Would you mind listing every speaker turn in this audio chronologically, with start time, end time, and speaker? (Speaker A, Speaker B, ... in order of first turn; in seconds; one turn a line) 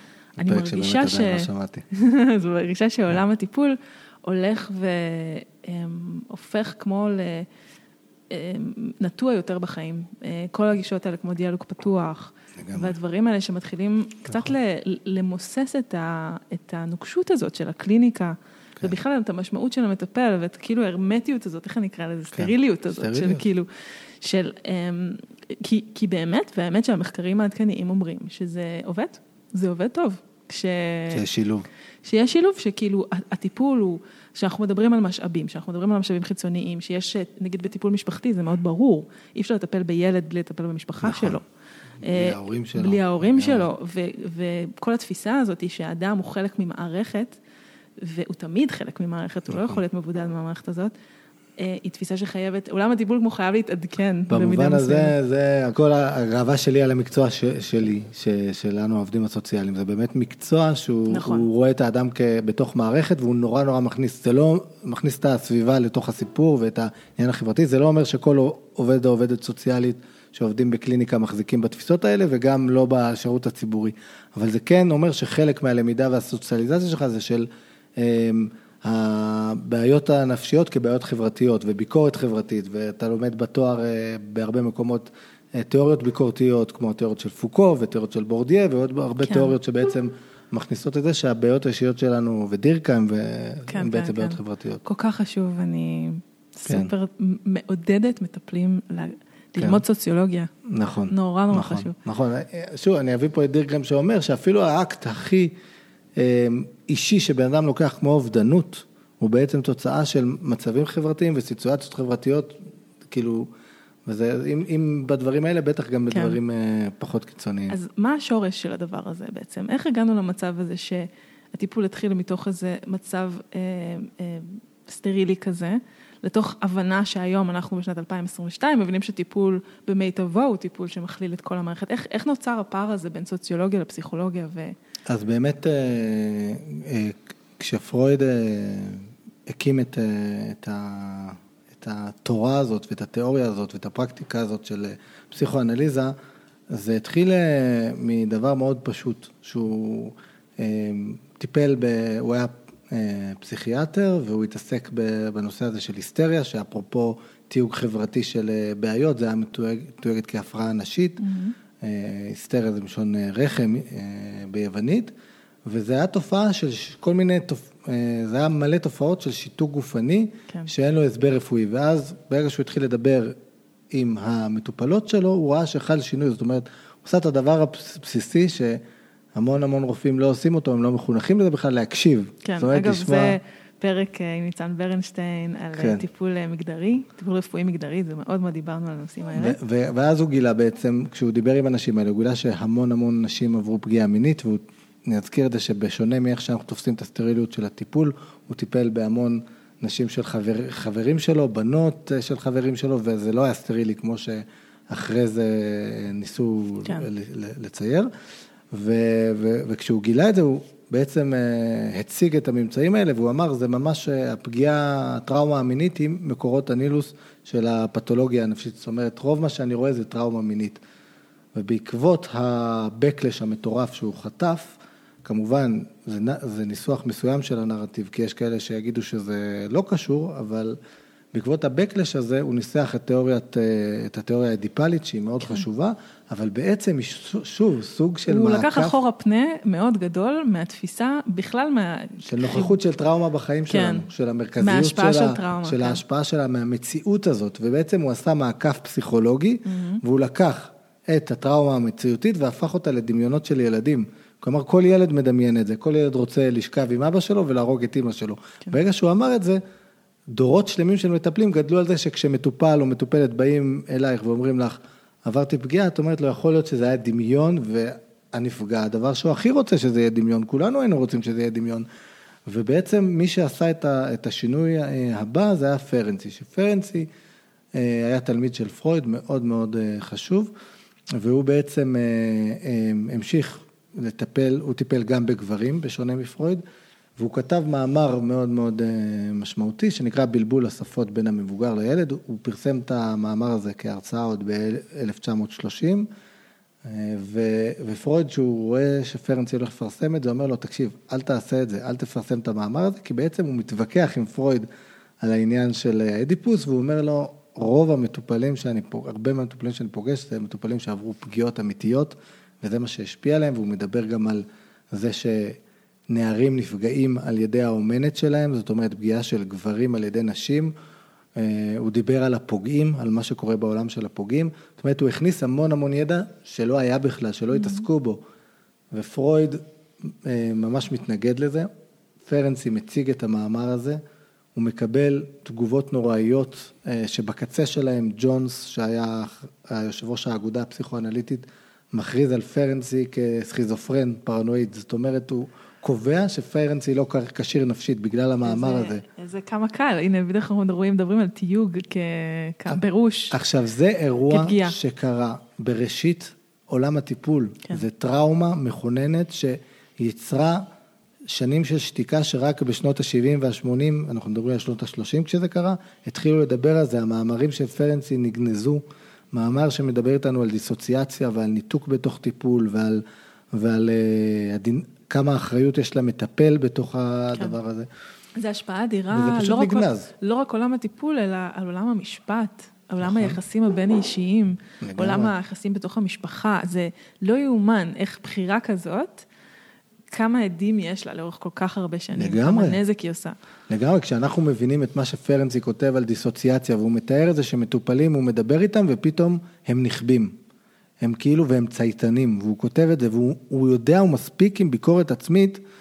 Speaker A: 0.4-7.5
Speaker B: 0.4-1.8
Speaker A: 8.3-31.2
Speaker B: 12.6-12.9
Speaker B: 22.3-23.4
Speaker B: 31.1-31.7
Speaker A: 32.0-41.4
Speaker B: 41.0-41.4
Speaker B: 42.0-43.7
Speaker A: 42.0-47.4
Speaker A: 48.0-50.9
Speaker B: 49.5-49.8
Speaker A: 51.6-55.1
Speaker B: 54.3-94.8
Speaker A: 61.1-61.5
Speaker A: 89.2-89.5
Speaker A: 93.7-100.5
Speaker B: 96.7-96.9
Speaker B: 99.6-99.8
Speaker B: 100.7-105.5
Speaker A: 101.1-102.0
Speaker B: 106.2-112.6
Speaker B: 113.1-113.5
Speaker B: 114.1-117.8
Speaker A: 116.1-116.4
Speaker A: 117.7-134.8
Speaker B: 135.1-146.2
Speaker B: 146.7-161.2
Speaker A: 161.2-161.6
Speaker B: 161.8-165.1
Speaker B: 165.7-173.4
Speaker B: 173.9-178.8
Speaker B: 179.4-183.4
Speaker A: 182.4-189.6
Speaker B: 185.8-186.0
Speaker B: 189.3-208.1
Speaker B: 208.7-220.8
Speaker B: 221.5-230.8
Speaker B: 231.3-239.0
Speaker A: 238.3-242.8
Speaker B: 242.2-259.6
Speaker A: 243.7-244.1
Speaker A: 244.6-246.0
Speaker A: 249.7-250.0
Speaker B: 260.3-271.9
Speaker B: 272.5-277.1
Speaker B: 277.7-280.5
Speaker B: 281.2-286.6
Speaker B: 287.2-296.1
Speaker B: 296.8-304.7
Speaker B: 305.2-315.6
Speaker B: 316.1-320.7
Speaker B: 321.4-328.2
Speaker A: 327.5-327.9
Speaker B: 328.9-331.7
Speaker B: 332.3-334.0
Speaker B: 334.6-349.0
Speaker A: 348.4-353.4
Speaker B: 353.3-360.6
Speaker A: 354.3-354.8
Speaker B: 361.3-373.0
Speaker B: 373.5-377.9
Speaker A: 378.4-389.3
Speaker B: 379.1-380.1
Speaker B: 383.0-383.4
Speaker B: 384.8-385.3
Speaker A: 390.1-393.4
Speaker B: 392.2-392.8
Speaker B: 393.7-400.4
Speaker B: 401.0-405.6